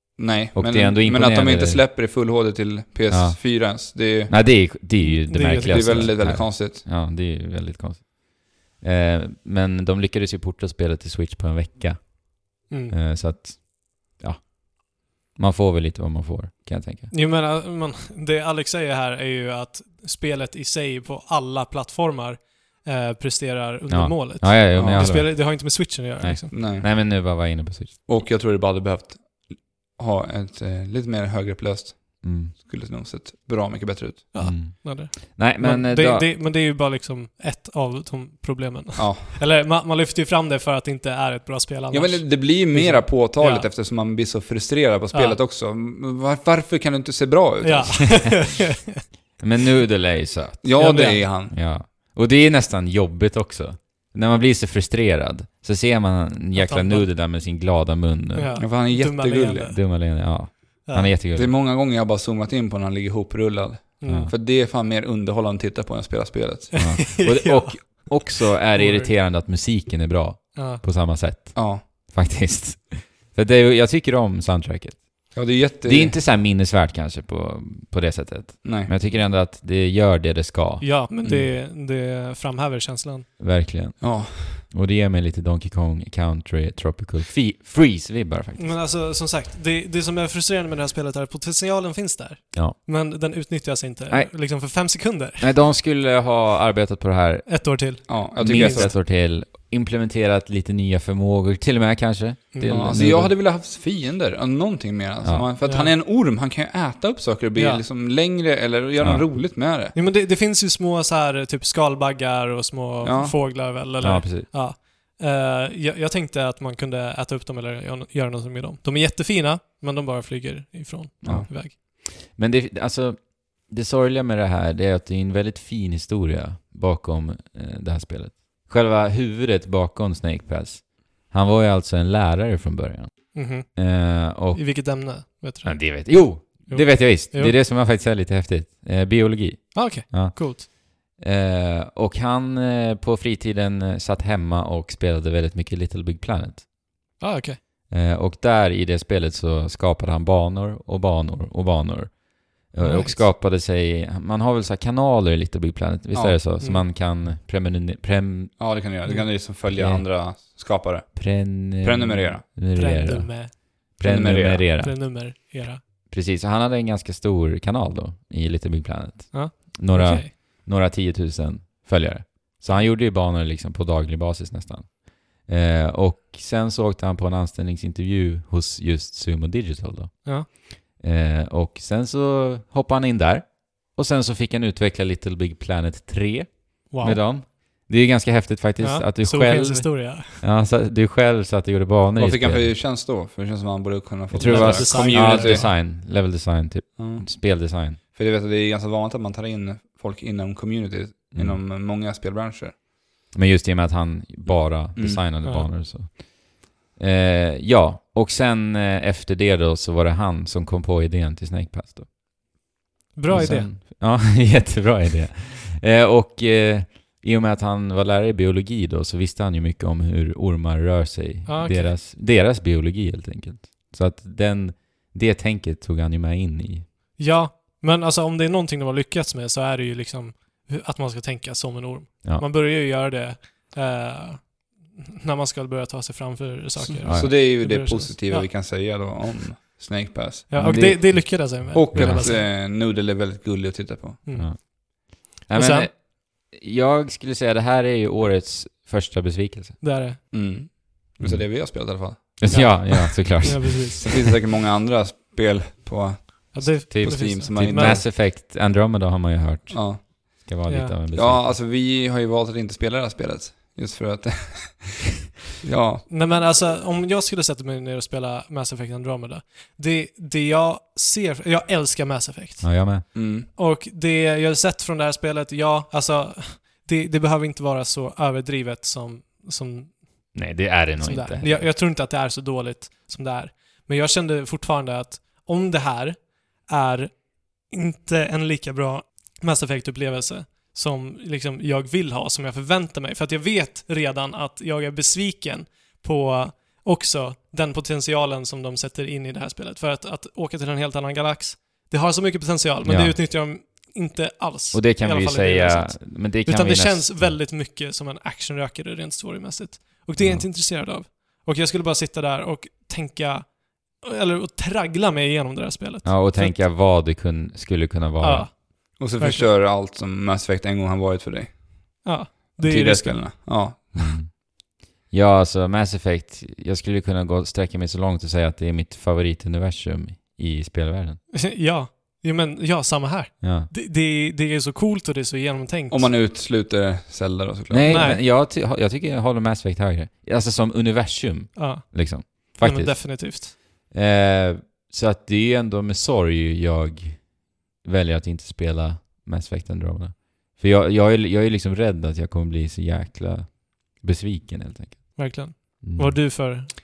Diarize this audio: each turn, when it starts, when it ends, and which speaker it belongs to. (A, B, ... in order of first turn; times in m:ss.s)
0:00.2-0:04.4 A
0:00.5-0:01.8 B
0:03.1-0:17.1 B
0:05.0-0:06.1 C
0:05.5-0:06.8 A
0:12.7-0:12.9 C
0:17.1-0:26.5 C
0:23.9-0:28.0 B
0:24.7-0:25.2 A
0:26.5-0:26.9 A
0:28.0-0:34.3 A
0:32.2-0:32.5 B
0:34.3-0:43.7 C
0:34.4-0:36.3 B
0:39.0-0:39.4 A
0:41.9-0:48.4 A
0:45.1-0:45.4 C
0:47.6-0:49.0 C
0:49.4-0:58.6 B
0:50.6-0:51.5 A
0:50.8-0:51.2 C
0:56.5-0:57.1 C
0:58.3-0:59.8 C
0:58.6-0:59.7 A
0:59.7-1:01.5 B
1:00.8-1:01.1 C
1:01.3-1:06.9 A
1:04.0-1:04.3 C
1:04.0-1:04.3 B
1:06.8-1:09.1 C
1:06.8-1:20.9 B
1:10.5-1:10.8 C
1:11.5-1:11.8 A
1:15.3-1:16.2 A
1:18.6-1:18.9 A
1:20.8-1:23.3 C
1:21.2-1:21.5 A
1:23.4-1:28.8 B
1:24.0-1:24.6 A
1:28.6-1:35.5 C
1:35.4-1:43.3 B
1:37.5-1:38.9 C
1:38.1-1:38.9 A
1:42.5-1:43.1 C
1:42.6-1:49.9 A
1:45.2-1:45.5 B
1:45.6-1:45.9 C
1:47.6-1:47.8 C
1:49.0-1:49.2 B
1:49.9-2:01.7 C
1:53.0-1:53.4 A
1:54.0-1:54.5 B
2:01.2-2:14.6 B
2:13.3-2:17.6 C
2:15.6-2:26.7 B
2:19.7-2:20.7 C
2:27.2-2:27.6 C
2:27.9-2:38.6 B
2:32.8-2:33.2 C
2:36.1-2:36.4 A
2:36.6-2:36.8 C
2:38.6-2:42.4 A
2:39.6-2:40.1 B
2:41.1-2:45.0 B
2:42.7-2:43.5 C
2:44.0-2:44.6 A
2:44.8-2:45.8 C
2:46.1-3:12.7 B
2:49.3-2:50.3 C
3:06.9-3:07.2 C
3:08.8-3:10.4 C
3:12.2-3:15.7 A
3:14.3-3:18.0 B
3:14.4-3:15.8 C
3:17.0-3:22.8 A
3:21.3-3:21.6 B
3:23.3-3:32.1 B
3:24.9-3:25.2 A
3:25.4-3:25.7 C
3:33.1-3:33.7 C
3:33.3-3:46.9 B
3:41.4-3:41.9 C
3:47.2-3:58.5 C
3:56.8-4:04.3 A
3:57.0-3:57.4 B
4:00.5-4:02.5 C
4:00.5-4:02.3 B
4:04.2-4:05.9 C
4:04.3-4:09.8 B
4:09.8-4:10.2 C
4:10.3-4:12.8 A
4:11.2-4:14.1 B
4:12.5-4:14.2 C
4:14.0-4:18.1 A
4:16.5-4:18.0 C
4:16.9-4:21.6 B
4:19.7-4:20.4 A
4:20.6-4:20.9 C
4:21.1-4:26.1 A
4:26.1-4:40.5 C
4:32.6-4:33.0 B
4:33.1-4:33.5 A
4:40.3-4:41.7 B
4:41.0-5:16.6 C
5:02.8-5:03.2 B
5:04.7-5:07.4 B
5:10.2-5:10.5 B
5:16.0-5:18.5 B
5:18.2-5:19.5 C
5:19.0-5:22.0 A
5:22.0-5:23.2 C
5:22.6-5:24.2 A
5:24.0-5:24.4 B
5:25.0-5:31.2 B
5:31.3-5:36.1 C
5:33.4-5:33.7 B
5:35.9-5:38.1 A
5:37.7-5:47.3 B
5:37.9-5:38.2 C
5:41.5-5:43.5 C
5:47.8-5:56.2 B
5:55.2-5:56.7 C